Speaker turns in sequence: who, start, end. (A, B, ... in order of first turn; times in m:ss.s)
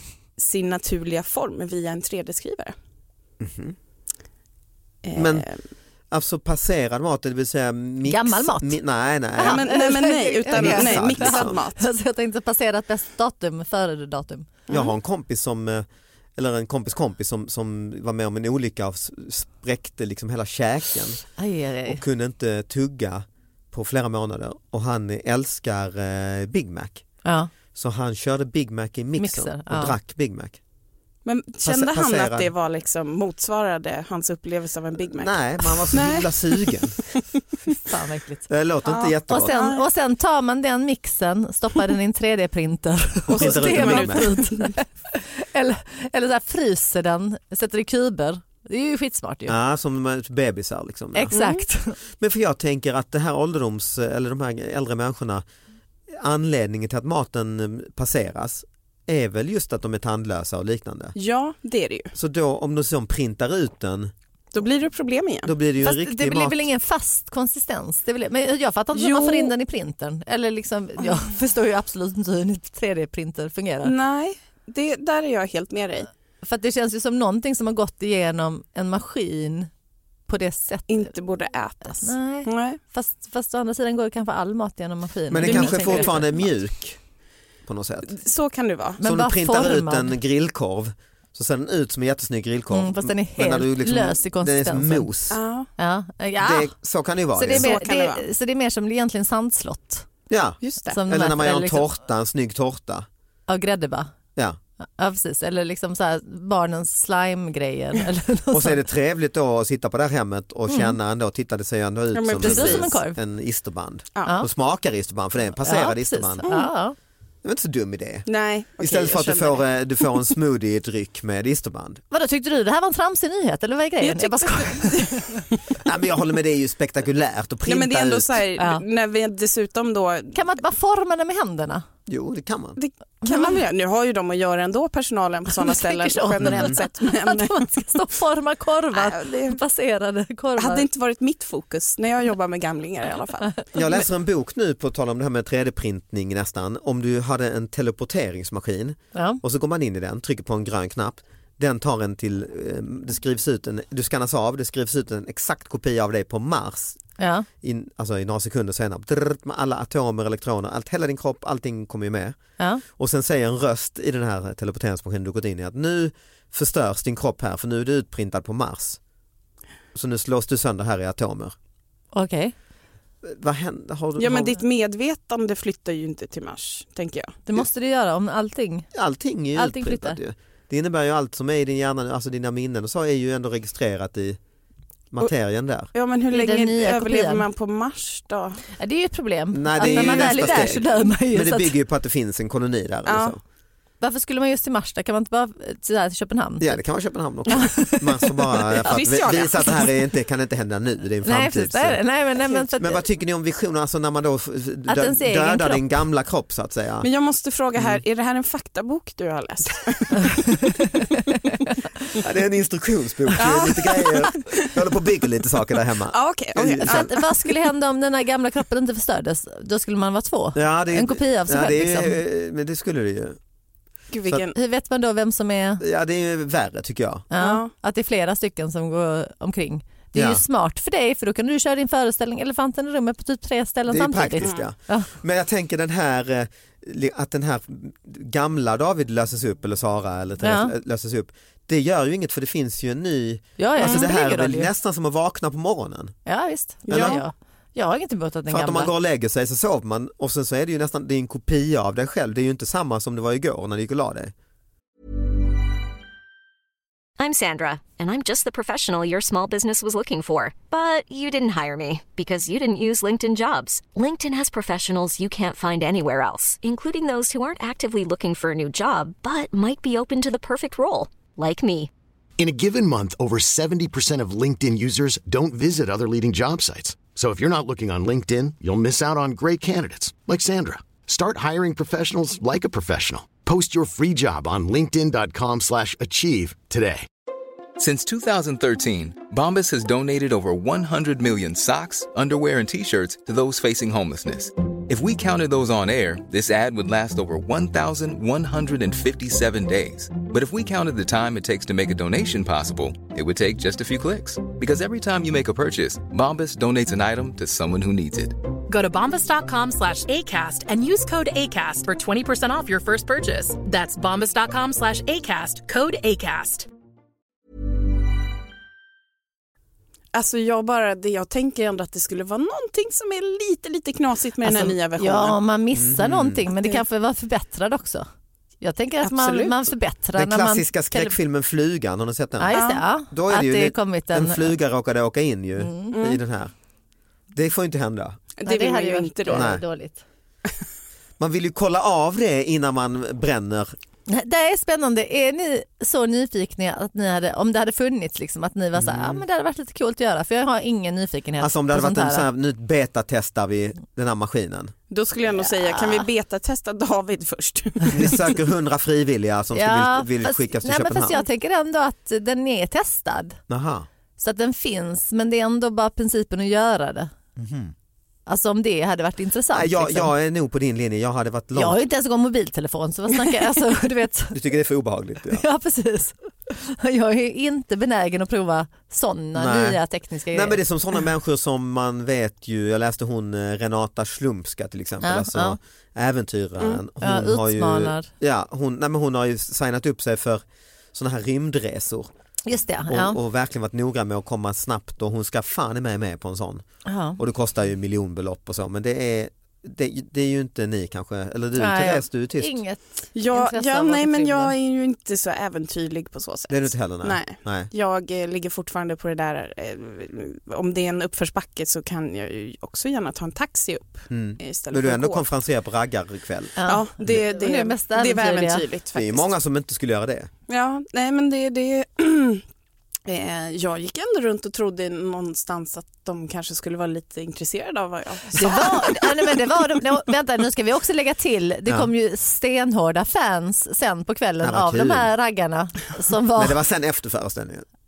0:00.4-0:02.8 A
0:03.4-0:03.8 B
0:05.0-0:05.6 A
0:05.2-0:05.5 B
0:06.1-0:09.8 B
0:08.0-0:08.8 C
0:09.4-0:14.6 C
0:09.4-0:11.8 A
0:10.5-0:11.6 B
0:14.7-0:14.9 A
0:14.7-0:21.2 B
0:21.4-0:22.0 C
0:21.8-0:27.0 B
0:27.2-0:27.5 C
0:27.7-0:30.6 B
0:29.2-0:30.0 C
0:31.2-0:37.2 A
0:31.6-0:32.5 B
0:35.1-0:37.0 B
0:37.7-0:38.5 C
0:38.5-0:39.6 B
0:38.8-0:39.8 A
0:39.3-0:49.6 C
0:43.3-0:44.3 B
0:43.3-0:44.8 A
0:49.5-0:51.4 B
0:51.1-0:52.0 C
0:51.3-0:51.6 A
0:52.2-0:55.4 B
0:56.1-1:01.2 B
1:01.2-1:02.1 A
1:02.1-1:04.1 B
1:04.5-1:05.5 A
1:05.4-1:06.7 B
1:05.8-1:14.0 C
1:08.9-1:09.5 A
1:13.8-1:16.1 A
1:16.4-1:19.7 C
1:20.3-1:21.1 C
1:20.9-1:22.8 A
1:21.9-1:26.3 C
1:25.3-1:27.0 B
1:25.4-1:26.2 A
1:27.7-1:28.1 B
1:28.1-1:29.0 A
1:29.0-1:35.4 B
1:29.0-1:30.1 C
1:32.7-1:35.1 C
1:35.3-1:35.7 A
1:35.8-1:36.7 C
1:36.4-1:37.7 B
1:37.3-1:40.1 C
1:37.5-1:38.3 A
1:40.3-1:43.1 B
1:40.6-1:41.0 A
1:40.9-1:41.9 C
1:43.5-1:44.1 C
1:45.0-1:48.8 C
1:48.5-1:56.5 B
1:50.7-1:51.0 C
1:52.1-1:53.0 A
1:52.4-1:53.2 C
1:55.6-1:57.0 C
1:56.4-1:56.7 A
1:57.4-1:58.3 B
1:58.3-2:00.1 A
1:58.8-2:02.0 B
2:02.1-2:05.4 C
2:04.0-2:05.6 A
2:05.8-2:08.4 B
2:07.6-2:10.4 A
2:08.6-2:08.8 C
2:10.3-2:11.8 C
2:12.1-2:12.8 B
2:12.8-2:17.7 A
2:13.2-2:13.6 C
2:15.6-2:20.9 C
2:16.4-2:16.8 B
2:18.9-2:19.6 A
2:20.6-2:24.0 A
2:23.7-2:37.0 B
2:29.1-2:29.4 C
2:37.2-2:37.5 C
2:37.6-2:42.4 B
2:42.9-2:49.0 B
2:49.9-2:51.6 B
2:52.1-2:52.5 C
2:53.2-2:54.6 B
2:54.2-2:57.4 A
2:57.5-2:58.9 C
2:58.9-3:04.4 B
2:59.6-3:00.2 C
3:05.1-3:05.9 B
3:05.9-3:08.6 A
3:06.3-3:07.5 C
3:08.8-3:11.8 C
3:09.5-3:13.4 B
3:09.8-3:10.9 A
3:13.1-3:13.4 A
3:14.0-3:16.8 C
3:16.6-3:22.0 B
3:17.5-3:18.6 C
3:18.8-3:19.9 A
3:21.2-3:23.0 C
3:22.5-3:27.1 B
3:24.9-3:25.8 C
3:27.0-3:30.6 A
3:32.2-3:37.1 B
3:33.4-3:34.7 A
3:36.1-3:37.5 A
3:36.8-3:42.2 C
3:40.6-3:43.4 B
3:44.1-3:44.6 A
3:44.6-3:45.8 C
3:45.8-3:47.3 B
3:47.3-3:55.1 C
3:47.4-3:47.7 A
3:50.1-3:50.4 B
3:53.9-4:06.2 B
3:54.4-3:54.7 A
4:00.4-4:00.7 C
4:03.6-4:04.7 C
4:03.8-4:04.1 A
4:06.3-4:08.9 C
4:06.9-4:07.2 A
4:06.9-4:07.2 B
4:08.5-4:14.3 B
4:17.2-4:31.9 D
4:32.4-4:47.1 E
4:47.8-5:08.4 F
5:08.7-5:16.7 G
5:20.1-5:25.4 A
5:24.4-5:28.1 C
5:25.7-5:26.5 B
5:28.6-5:31.2 C
5:29.0-5:29.7 A
5:30.2-5:36.5 B
5:32.4-5:34.6 C
5:32.5-5:32.8 A
5:35.6-5:36.0 C
5:35.9-5:36.2 A
5:37.3-5:38.2 B
5:38.4-5:39.5 A
5:38.5-5:40.0 C
5:39.3-5:39.6 B
5:41.2-5:43.8 B
5:44.1-5:52.3 C
5:48.8-5:49.2 B
5:51.4-5:54.7 B
5:54.9-5:58.4 A
5:55.4-5:56.0 C
5:57.9-6:01.2 B
5:59.5-6:03.4 C
6:03.5-6:03.9 B
6:04.2-6:07.1 C
6:07.4-6:07.7 B
6:08.3-6:10.1 C
6:09.5-6:11.8 B
6:11.6-6:14.4 C
6:14.3-6:15.4 B
6:15.3-6:20.6 C
6:19.4-6:30.4 B
6:25.0-6:25.6 C
6:27.0-6:28.1 C
6:30.9-6:32.1 B
6:32.5-6:33.2 C
6:32.9-6:36.6 B
6:36.9-6:37.2 C
6:37.2-6:42.6 B
6:41.6-6:44.6 C
6:43.2-6:55.2 A
6:46.5-6:47.7 B
6:54.1-6:57.2 B
6:56.6-6:58.7 C
6:56.6-6:59.3 A
6:58.9-7:00.3 B
7:00.5-7:02.4 A
7:03.1-7:09.3 A
7:08.3-7:16.6 C
7:11.7-7:11.9 B
7:14.4-7:15.1 B
7:16.4-7:17.7 B